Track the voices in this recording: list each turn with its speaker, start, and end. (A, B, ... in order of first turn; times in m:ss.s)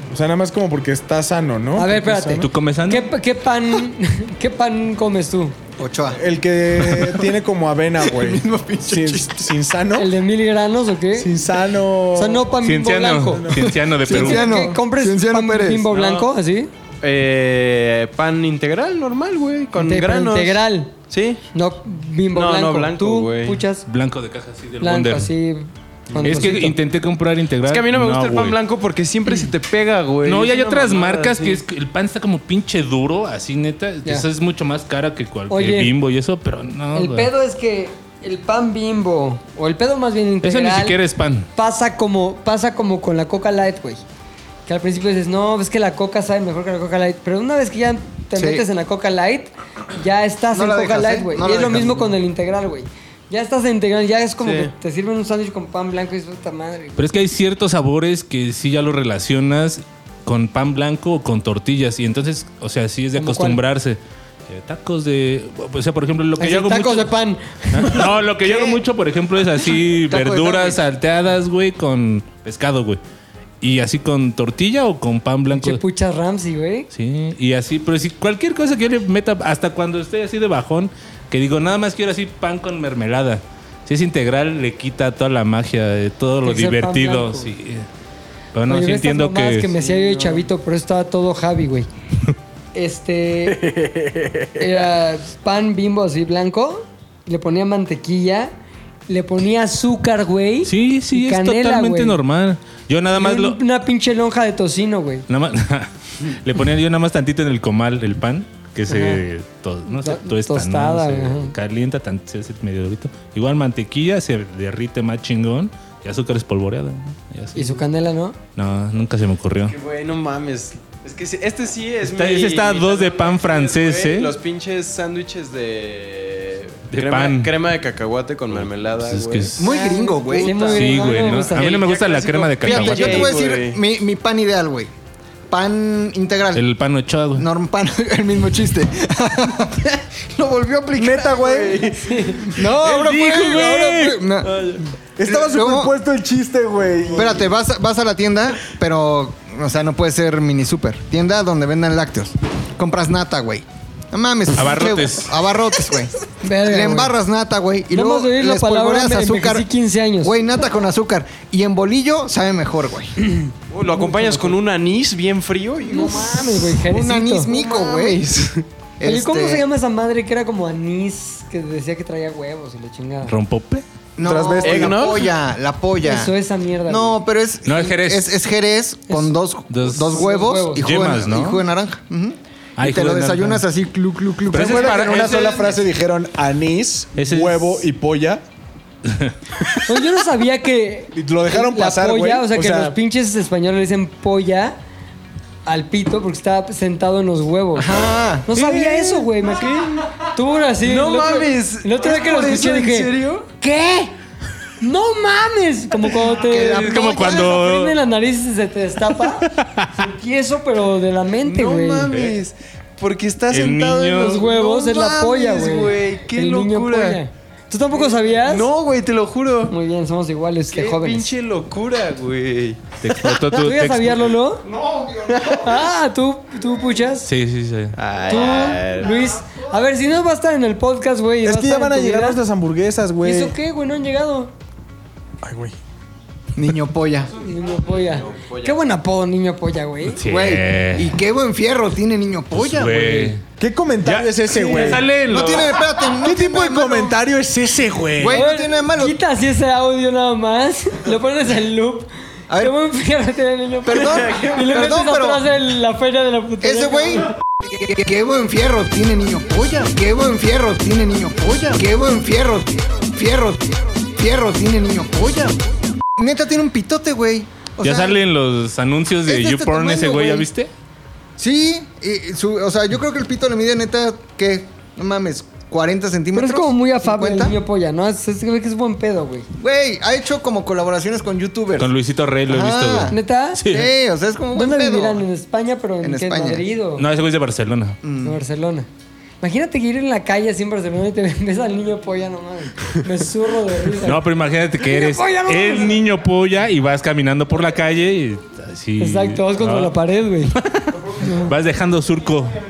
0:00.1-0:02.5 A
0:01.8-0:05.6 B
0:02.4-0:03.1 C
0:05.8-0:06.2 D
0:06.1-0:10.1 A
0:06.8-0:07.3 D
0:08.0-0:09.5 D
0:10.0-0:11.4 B
0:11.2-0:12.5 A
0:12.2-0:13.5 B
0:12.6-0:14.7 C
0:13.3-0:13.8 A
0:13.6-0:16.0 D
0:14.1-0:16.7 B
0:17.0-0:21.4 E
0:19.8-0:21.0 B
0:21.5-0:23.8 B
0:22.3-0:23.6 E
0:23.9-0:25.3 C
0:24.8-0:26.8 B
0:26.1-0:26.6 E
0:26.2-0:28.6 C
0:27.7-0:31.6 E
0:30.2-0:37.3 C
0:35.5-0:35.9 B
0:37.0-0:41.0 B
0:40.4-0:41.5 C
0:41.6-0:44.0 B
0:44.7-0:57.0 B
0:48.4-0:48.6 D
0:50.5-0:52.1 D
0:54.4-0:54.7 E
0:57.0-1:07.1 C
1:03.2-1:03.6 B
1:06.4-1:08.8 B
1:07.7-1:13.0 C
1:10.1-1:10.8 D
1:13.6-1:15.8 C
1:15.5-1:16.9 B
1:16.9-1:27.9 C
1:26.4-1:27.5 B
1:28.5-1:29.7 C
1:28.7-1:31.9 B
1:29.7-1:30.5 E
1:32.7-1:33.7 B
1:33.5-1:34.7 A
1:34.6-1:38.5 B
1:39.1-1:42.2 B
1:40.6-1:43.6 C
1:43.1-1:45.3 B
1:45.3-1:57.8 C
1:48.9-1:49.2 B
1:49.9-1:51.5 B
1:57.6-1:58.4 B
1:58.6-1:59.8 C
1:59.6-2:13.8 E
2:02.0-2:04.4 C
2:06.9-2:07.5 C
2:08.5-2:09.7 C
2:09.6-2:10.6 D
2:09.7-2:11.8 B
2:10.7-2:13.4 C
2:12.6-2:14.9 D
2:15.5-2:16.6 D
2:16.5-2:17.5 C
2:17.4-2:20.0 D
2:20.3-2:22.5 E
2:21.0-2:22.1 A
2:21.9-2:22.4 B
2:22.5-2:25.9 D
2:22.7-2:24.8 C
2:25.2-2:27.5 A
2:27.2-2:39.7 D
2:34.6-2:35.3 C
2:36.4-2:37.1 B
2:37.9-2:40.3 B
2:40.2-2:43.2 D
2:43.7-2:46.6 E
2:43.9-2:44.6 B
2:45.9-2:47.5 B
2:46.8-2:48.2 D
2:47.5-2:48.6 E
2:49.0-2:49.6 D
2:49.0-2:53.3 B
2:53.2-2:53.8 C
2:54.2-2:56.3 D
2:54.2-2:55.0 A
2:54.6-2:55.3 E
2:56.0-2:57.2 B
2:56.9-3:05.7 D
2:57.6-2:58.4 C
2:59.1-2:59.4 B
2:59.7-3:00.3 C
3:00.0-3:00.9 B
3:00.8-3:01.6 C
3:02.8-3:03.6 C
3:04.5-3:05.8 C
3:04.5-3:08.4 A
3:07.2-3:07.8 C
3:09.1-3:09.8 C
3:09.9-3:14.8 B
3:11.1-3:13.0 A
3:15.7-3:24.1 B
3:17.8-3:18.5 D
3:18.6-3:19.2 C
3:19.5-3:20.1 E
3:20.8-3:23.5 E
3:24.8-3:32.1 B
3:26.3-3:28.0 C
3:26.3-3:27.5 D
3:29.4-3:29.9 C
3:31.4-3:37.2 E
3:32.1-3:32.4 C
3:33.5-3:34.4 C
3:34.3-3:38.7 B
3:37.9-3:39.7 E
3:39.7-3:41.3 B
3:40.7-3:43.0 E
3:43.0-3:44.3 C
3:43.5-3:44.7 B
3:44.7-3:45.7 E
3:45.4-3:47.3 B
3:47.2-3:48.0 C
3:48.0-3:49.3 E
3:48.3-3:52.4 B
3:51.4-3:53.6 A
3:53.2-3:54.5 B
3:55.4-3:55.8 A
3:56.6-3:57.3 D
3:57.4-4:00.2 B
3:58.0-3:58.8 E
4:00.2-4:01.1 C
4:00.2-4:03.3 D
4:02.5-4:03.4 C
4:03.6-4:05.1 A
4:04.0-4:05.8 C
4:04.8-4:07.2 D
4:06.2-4:08.4 A
4:08.2-4:09.2 D
4:08.3-4:17.3 B
4:12.5-4:12.8 D
4:13.8-4:15.4 D
4:16.6-4:25.6 D
4:26.2-4:28.2 D
4:27.8-4:30.7 C
4:29.3-4:30.5 D
4:31.4-4:37.6 D
4:36.3-4:39.5 B
4:39.6-4:41.9 D
4:41.8-4:43.9 C
4:42.5-4:43.2 D
4:43.1-4:43.6 B
4:43.7-4:45.2 D
4:44.5-4:47.0 B
4:46.0-4:46.7 D
4:47.0-4:48.0 C
4:48.0-4:48.4 D
4:48.2-4:48.9 B
4:49.4-4:54.2 B
4:54.0-5:00.0 C
4:54.8-4:56.0 B
4:59.0-5:00.6 B
5:00.5-5:02.6 C
5:01.2-5:01.5 B